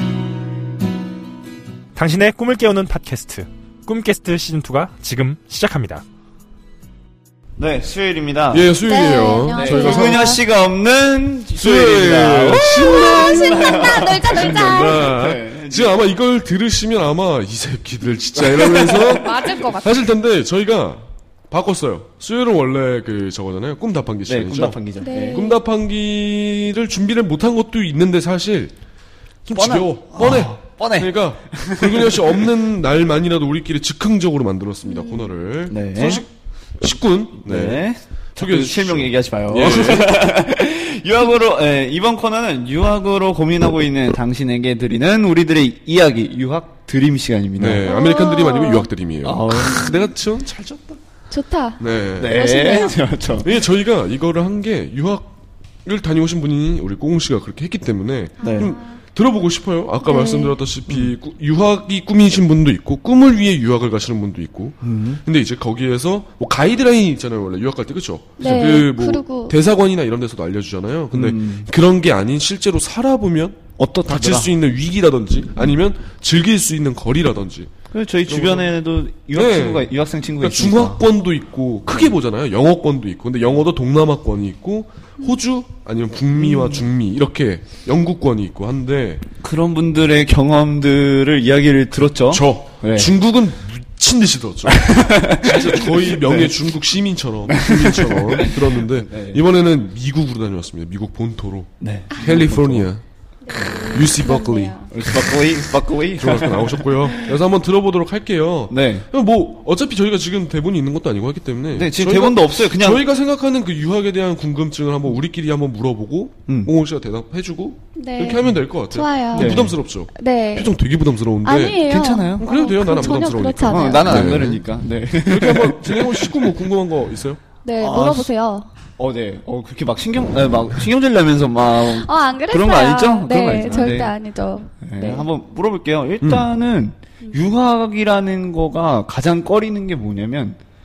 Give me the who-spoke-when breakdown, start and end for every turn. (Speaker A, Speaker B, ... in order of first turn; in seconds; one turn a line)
Speaker A: 1.9-6.0
Speaker B: 7.6-8.7
Speaker C: 8.5-10.4
Speaker D: 8.8-10.4
Speaker B: 9.5-16.0
Speaker C: 11.6-28.7
Speaker D: 12.5-15.1
Speaker B: 18.3-19.2
Speaker D: 19.1-20.0
Speaker B: 24.2-25.5
Speaker D: 25.0-25.6
Speaker C: 29.4-36.3
Speaker B: 29.5-32.3
Speaker D: 34.8-35.3
Speaker B: 35.7-36.2
Speaker C: 36.8-40.2
Speaker B: 37.4-47.9
Speaker C: 47.6-51.0
Speaker D: 47.8-48.9
Speaker B: 49.2-50.1
Speaker D: 49.5-50.1
Speaker D: 51.3-53.0
Speaker C: 51.8-52.4
Speaker B: 52.2-53.5
Speaker C: 53.4-77.7
Speaker D: 58.4-59.0
Speaker B: 58.4-58.7
Speaker D: 60.0-60.6
Speaker B: 60.9-61.1
Speaker B: 64.8-65.2
Speaker D: 68.4-69.6
Speaker B: 71.1-71.7
Speaker B: 73.8-74.5
Speaker B: 77.9-81.1
Speaker C: 78.2-78.8
Speaker C: 79.3-89.2
Speaker B: 81.9-82.2
Speaker B: 86.3-86.9
Speaker B: 89.4-93.1
Speaker C: 92.3-103.0
Speaker B: 94.7-96.6
Speaker B: 97.5-99.4
Speaker B: 101.8-102.9
Speaker D: 102.1-102.4
Speaker D: 103.4-104.9
Speaker C: 103.6-105.4
Speaker B: 104.9-106.9
Speaker C: 106.2-124.6
Speaker B: 108.7-109.1
Speaker B: 111.7-113.1
Speaker B: 116.5-116.7
Speaker D: 118.0-120.8
Speaker B: 119.3-119.8
Speaker D: 121.4-124.3
Speaker B: 121.8-126.5
Speaker C: 125.2-127.4
Speaker D: 127.6-128.7
Speaker B: 127.8-128.3
Speaker B: 129.0-134.1
Speaker D: 131.7-135.3
Speaker B: 134.8-140.6
Speaker C: 136.2-136.5